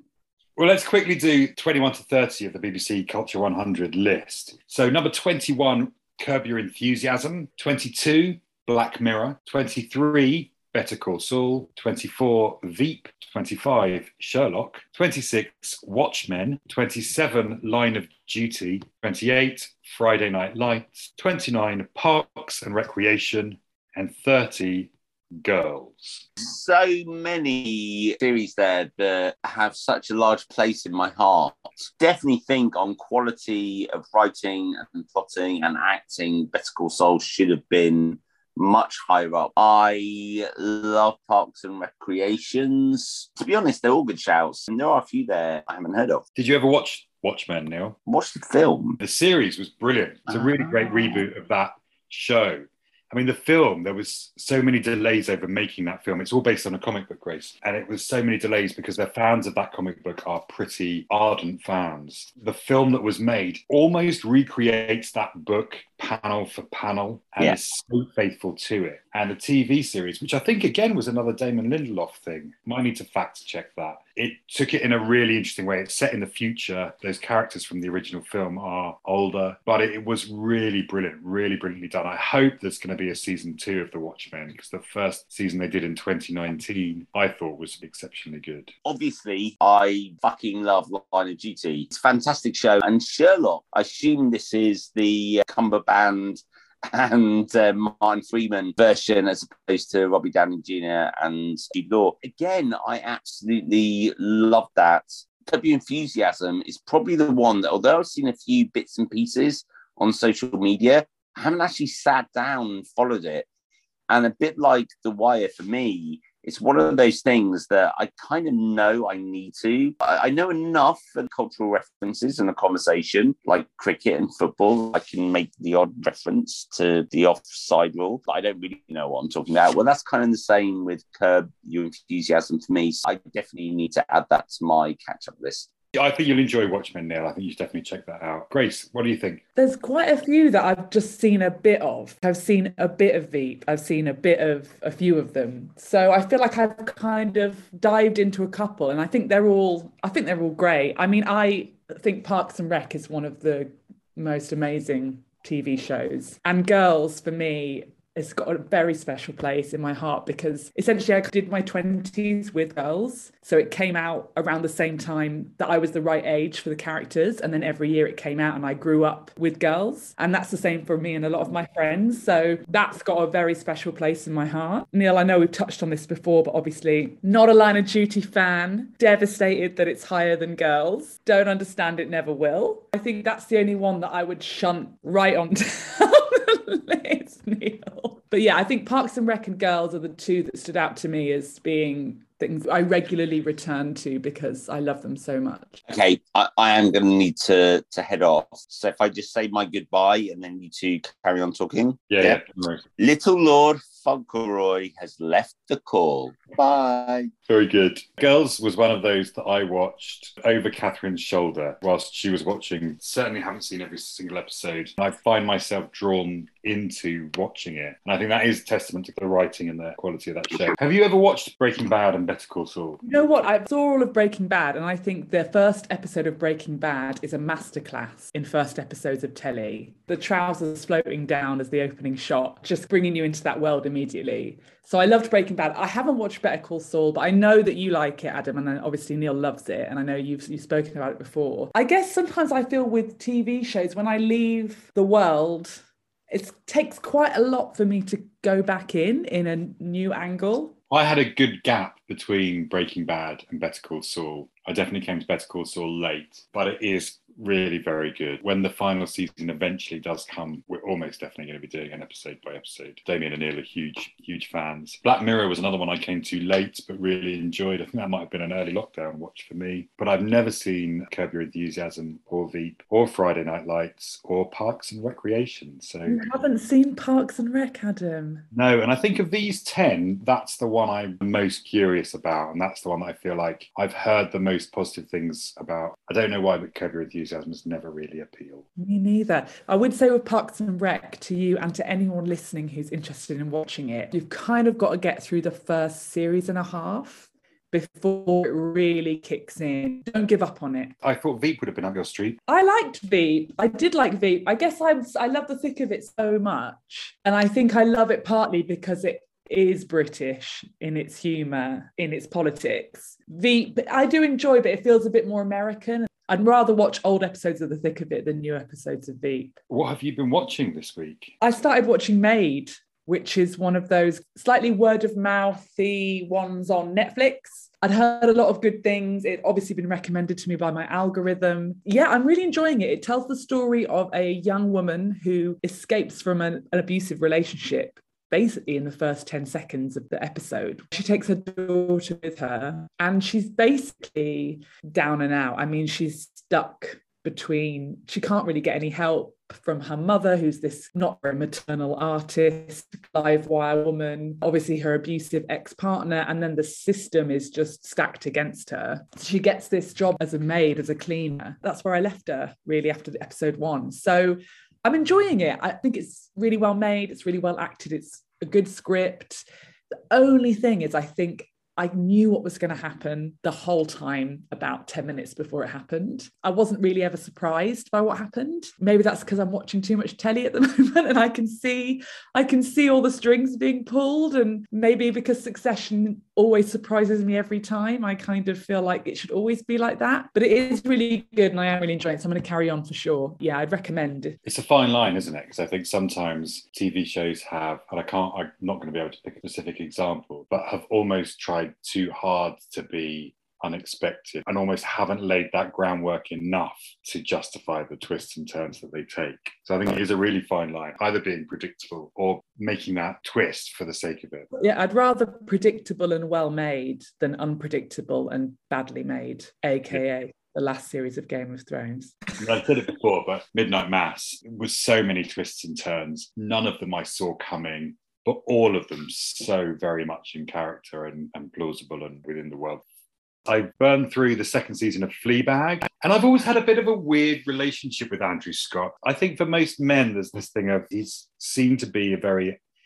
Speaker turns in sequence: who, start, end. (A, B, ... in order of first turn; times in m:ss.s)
0:00.6-0:26.3 A
0:26.4-0:46.2 B
0:46.4-0:48.0 A
0:48.1-0:49.0 B
0:49.0-1:28.7 A
1:28.8-1:53.5 B
1:54.1-2:15.7 B
2:16.0-2:19.4 A
2:19.6-3:15.8 C
3:15.9-3:22.4 B
3:22.1-3:22.8 A
3:23.0-3:27.3 B
3:27.5-3:43.0 A
3:43.0-4:10.8 C
4:10.9-4:36.3 A
4:36.1-4:38.5 C
4:38.5-4:48.7 A
4:48.8-5:00.9 C
5:01.0-5:02.4 A
5:02.5-5:19.6 C
5:19.7-5:21.4 A
5:21.4-6:09.4 C
6:10.1-6:34.4 C
6:34.4-6:54.5 A
6:54.5-7:02.2 C
7:02.4-7:12.8 A
7:13.5-7:22.6 A